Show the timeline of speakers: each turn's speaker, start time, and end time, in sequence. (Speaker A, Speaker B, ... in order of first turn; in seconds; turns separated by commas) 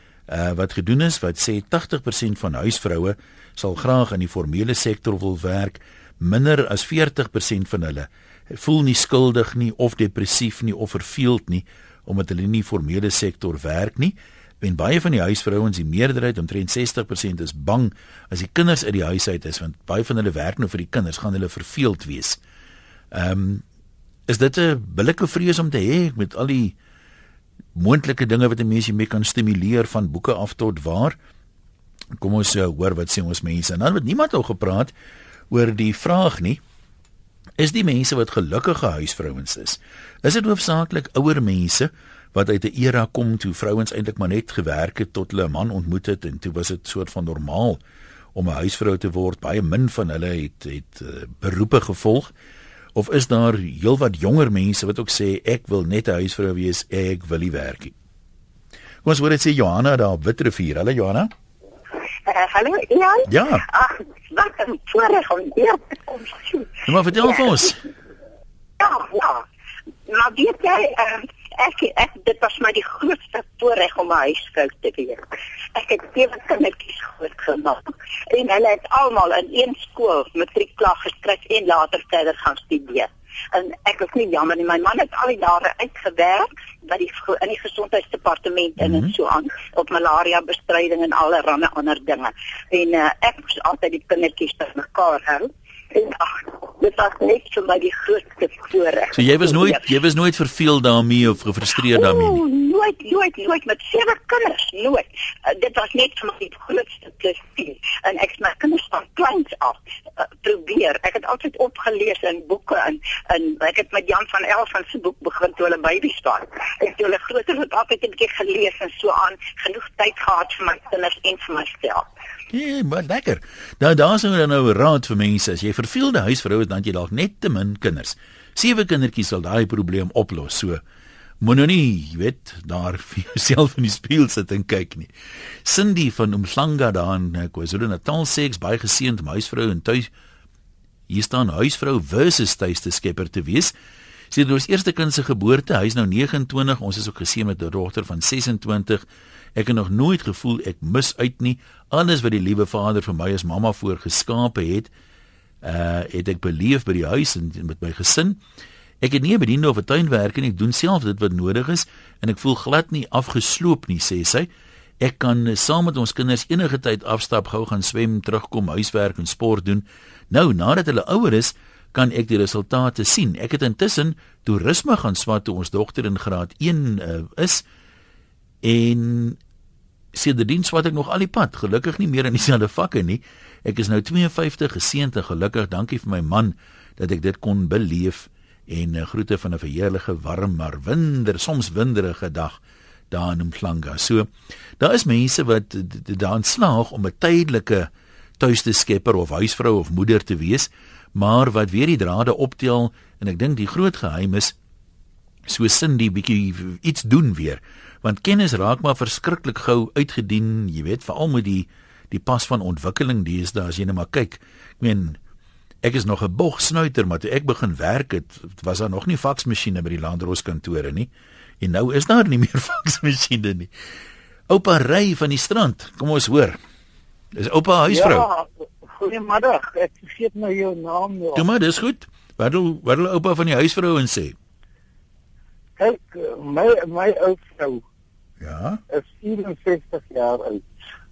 Speaker A: 0.3-22.4, Speaker A: 23.1-23.6, Speaker A: 24.3-26.8, Speaker A: 27.8-31.2, Speaker A: 32.2-34.9, Speaker A: 35.5-36.6, Speaker A: 37.6-47.8, Speaker A: 48.4-52.3, Speaker A: 53.0-57.9, Speaker A: 59.0-61.3, Speaker B: 62.3-67.6, Speaker A: 63.3-63.7, Speaker A: 66.9-67.8, Speaker B: 68.8-69.5, Speaker B: 70.1-99.9, Speaker A: 88.8-89.1, Speaker A: 99.1-102.4, Speaker B: 101.9-122.1, Speaker A: 122.5-130.8, Speaker A: 131.4-135.1, Speaker A: 135.6-140.1, Speaker A: 141.1-143.7, Speaker A: 144.3-149.0, Speaker A: 149.6-154.9, Speaker A: 155.6-158.4, Speaker A: 159.0-164.5, Speaker A: 165.0-177.6, Speaker A: 178.6-179.4, Speaker A: 180.1-192.6, Speaker A: 193.1-204.6, Speaker A: 205.5-215.2, Speaker A: 215.8-221.1, Speaker A: 221.6-223.7, Speaker A: 224.5-226.6, Speaker A: 227.4-228.3, Speaker C: 227.9-231.4, Speaker A: 231.3-234.4, Speaker C: 235.8-237.8, Speaker A: 238.4-238.8, Speaker C: 238.9-240.7